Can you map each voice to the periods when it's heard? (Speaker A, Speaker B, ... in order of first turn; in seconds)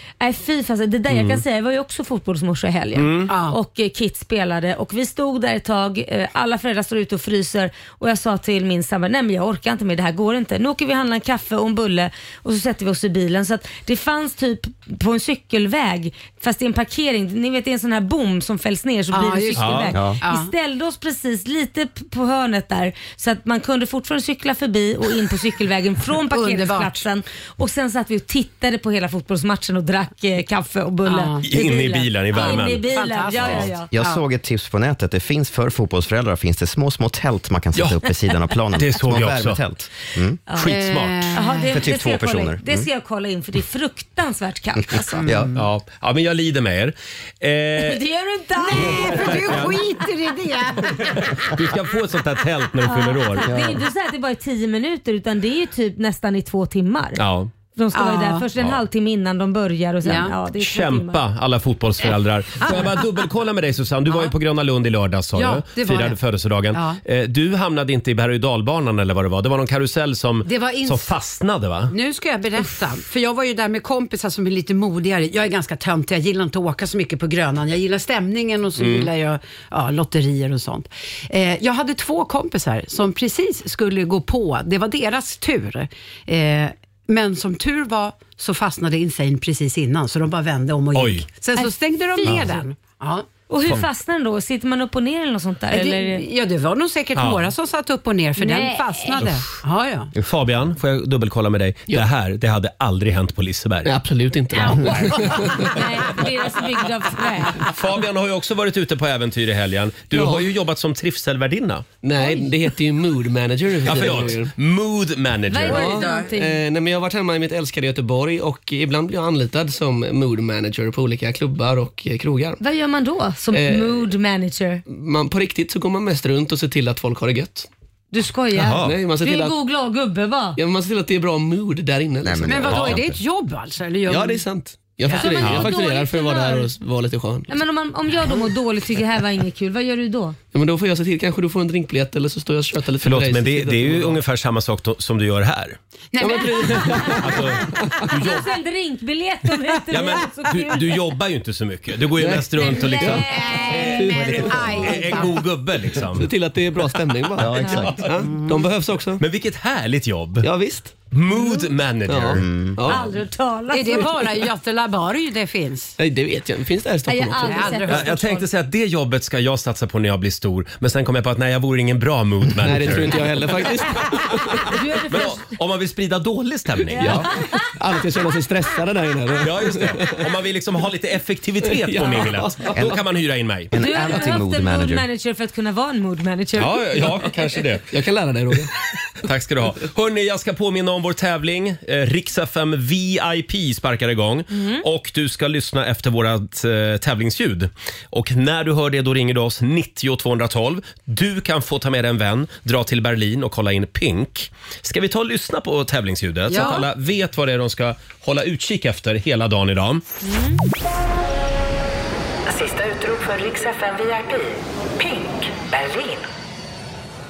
Speaker A: 0.2-33.9, 41.3-45.3, 47.8-49.5, 52.9-57.2, 57.8-61.2, 91.5-92.6, 93.5-96.2, 98.4-99.3, 105.6-107.7, 112.2-112.5, 115.5-116.6, 122.6-124.8, 128.1-130.6, 135.1-136.7, 137.5-140.4, 148.1-151.0, 152.6-154.4, 157.6-157.9, 161.3-161.7, 162.9-164.3, 167.1-168.5, 174.7-175.5, 176.9-177.7, 183.8-187.0, 194.5-194.8, 210.2-210.6
Speaker B: 1.1-1.4, 3.0-3.3, 19.6-19.9, 31.5-33.7, 38.8-39.7, 40.5-41.4, 45.5-48.0, 48.8-49.8, 51.1-53.6, 57.2-57.5, 60.6-71.9, 78.8-79.1, 90.9-91.3, 97.2-97.5, 100.2-103.9, 107.6-111.9, 113.8-115.9, 135.4-135.7, 143.0-145.8, 147.2-148.5, 149.9-156.3, 157.8-158.1, 159.2-160.5, 161.1-162.5, 167.9-173.3, 175.1-177.2, 179.4-183.7, 186.6-187.9, 189.2-210.0
Speaker C: 3.3-3.6, 19.1-20.5, 26.3-27.0, 31.1-31.5, 32.3-34.2, 40.6-41.8, 45.1-45.6, 48.6-51.5, 57.9-58.5, 60.0-60.4, 62.6-62.9, 64.1-64.3, 65.4-66.2, 66.7-67.0, 70.5-71.1, 71.9-93.3, 95.7-100.1, 104.6-105.3, 132.4-134.5, 135.1-135.5, 146.1-147.4, 153.4-155.5, 163.7-166.0, 167.4-168.2, 206.5-206.9
Speaker D: 19.9-20.2, 33.9-40.4, 41.7-42.9, 45.2-45.6, 53.5-53.8, 128.7-128.9, 132.2-133.2, 154.1-155.2, 157.4-158.6, 162.3-162.9, 182.7-183.0, 183.7-185.1
Speaker E: 103.8-105.8, 110.1-110.5, 112.0-114.5, 115.6-122.6, 123.5-124.1, 124.9-127.7, 128.8-129.6, 130.6-133.0, 134.1-137.5, 140.5-144.2, 146.2-148.1, 152.2-154.7, 156.1-159.2, 160.4-161.0, 162.1-163.1, 166.0-167.9, 172.6-174.7, 176.9-180.2, 181.7-182.9, 187.9-188.7
Speaker F: 212.5-216.3